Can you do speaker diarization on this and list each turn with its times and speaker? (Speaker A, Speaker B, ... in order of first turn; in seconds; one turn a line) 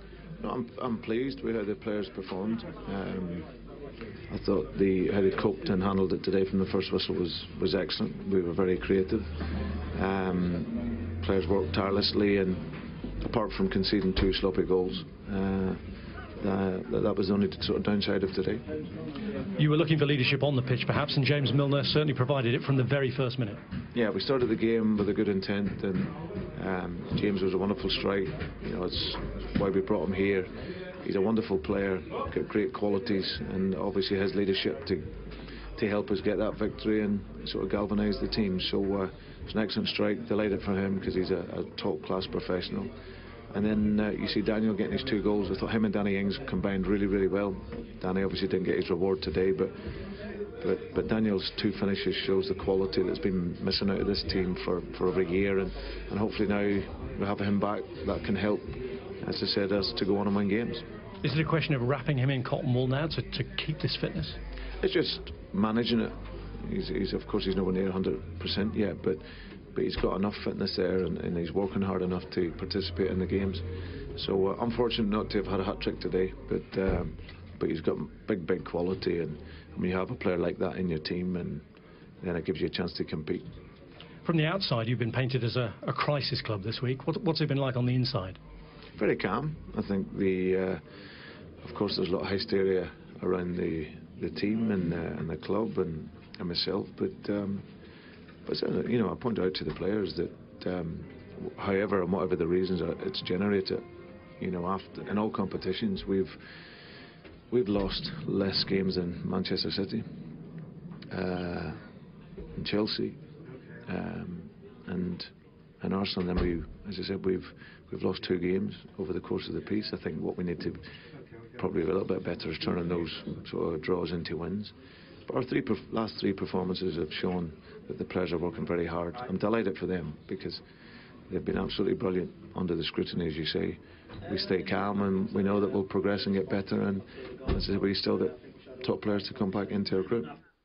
Speaker A: 0.4-3.5
Speaker A: 4.3-9.3
Speaker A: 9.9-15.8
Speaker A: 16.4-18.6
Speaker B: 19.6-23.6
Speaker A: 23.9-30.5
Speaker A: 31.0-35.1
Speaker A: 35.8-42.9
Speaker A: 43.5-49.8
Speaker A: 50.6-60.9
Speaker B: 61.2-64.4
Speaker A: 64.8-69.2
Speaker A: 69.7-81.7
Speaker A: 82.2-83.5
Speaker B: 84.2-88.4
Speaker A: 89.0-90.8
Speaker A: 91.6-97.7
Speaker A: 98.5-103.8
Speaker A: 104.4-106.4
Speaker A: 107.5-110.1
Speaker A: 111.1-111.8
Speaker A: 112.6-113.2
Speaker A: 113.9-120.8
Speaker A: 121.6-124.7
Speaker A: 125.3-130.6
Speaker A: 131.3-140.3